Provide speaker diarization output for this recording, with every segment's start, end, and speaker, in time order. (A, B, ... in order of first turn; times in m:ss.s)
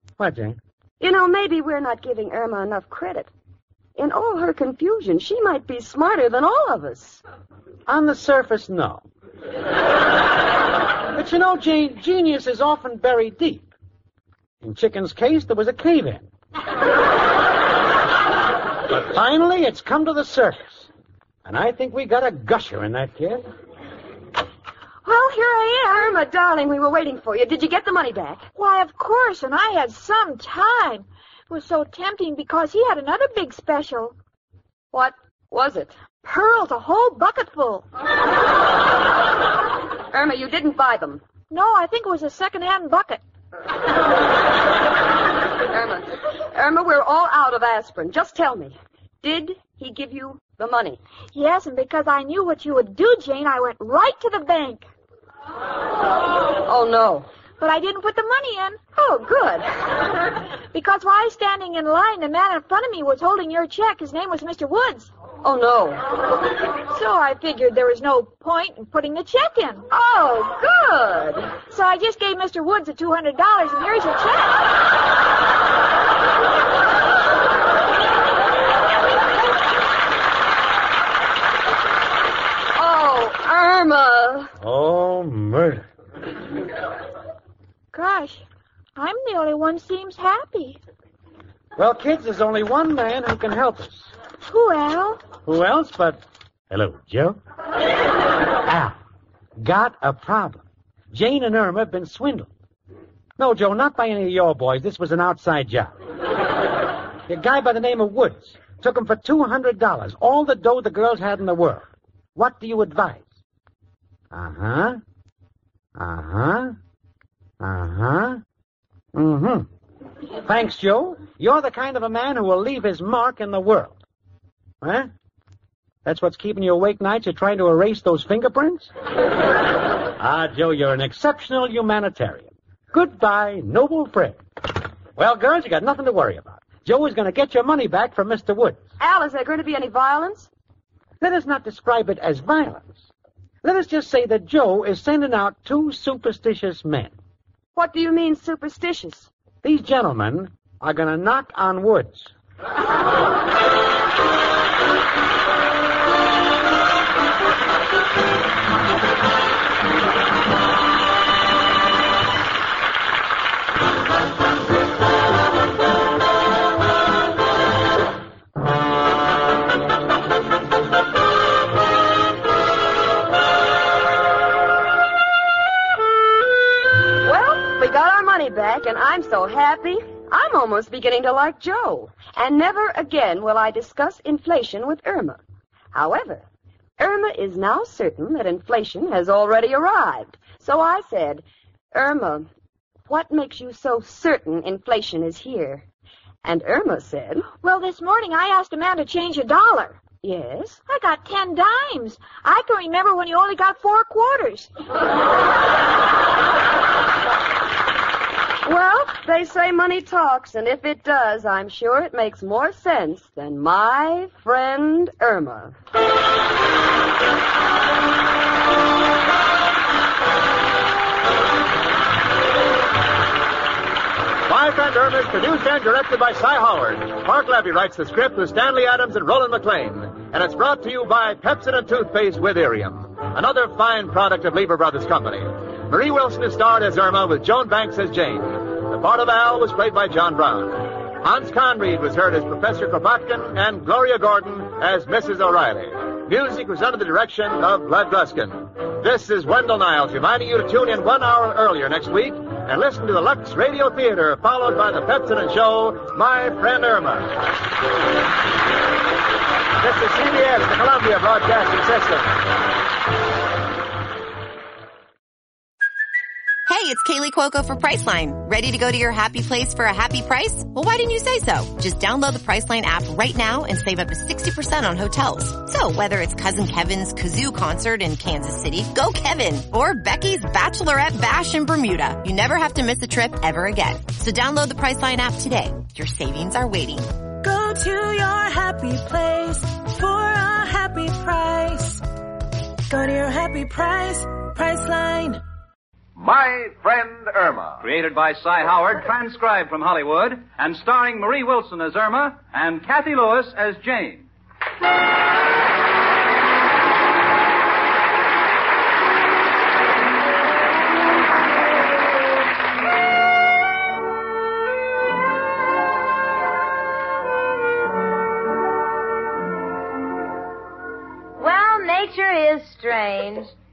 0:00.2-0:00.6 A
0:01.0-0:03.3 B
0:04.0-0:07.2 B
0:07.9-0:09.0 A
0:11.1-0:13.7 A
0:14.6-0:16.3 A
0:18.9-0:20.9 A
0:21.4-0:23.4 A
0:25.0-0:26.2 C
0:25.9-0:28.4 B
0:28.5-0:34.1 C
0:34.9-0:35.9 B
0:36.2-0:37.8 C
0:40.1-0:41.2 B
0:41.5-0:43.2 C
0:45.7-0:51.0 B
0:51.3-0:54.9 C
0:56.6-0:57.3 B
0:57.6-0:58.8 C
0:58.9-0:59.9 B
1:00.7-1:05.1 C
1:05.4-1:06.0 B
1:06.9-1:09.8 C
1:09.9-1:11.5 B
1:11.7-1:14.7 C
1:22.7-1:24.5 B
1:24.6-1:25.8 A
1:27.9-1:28.4 C
1:29.0-1:30.8 C
1:31.8-1:34.1 A
1:34.4-1:35.2 C
1:35.4-1:37.4 A
1:38.6-1:39.0 A
1:39.6-1:42.5 A
1:43.4-1:45.9 A
1:47.3-1:53.2 A
1:54.3-1:55.0 A
1:56.0-1:56.7 A
1:57.6-1:58.4 A
1:59.1-1:59.7 A
2:00.4-2:04.0 A
2:04.8-2:05.1 A
2:06.0-2:08.9 A
2:10.2-2:14.4 A
2:15.2-2:18.8 A
2:19.0-2:20.5 B
2:21.2-2:23.0 A
2:23.6-2:27.1 A
2:27.7-2:29.3 B
2:29.6-2:32.3 A
2:57.2-3:05.4 B
3:05.9-3:06.4 B
3:07.0-3:12.5 B
3:13.1-3:15.8 B
3:16.4-3:17.5 B
3:17.6-3:20.0 C
3:20.2-3:20.8 B
3:20.9-3:24.7 C
3:28.6-3:35.7 B
3:44.5-4:17.3 D
4:19.8-4:22.3 D
4:26.7-4:47.1 E
4:47.4-4:52.0 F
4:52.9-4:55.4 F
4:57.9-5:04.2 G
5:21.4-5:23.5 H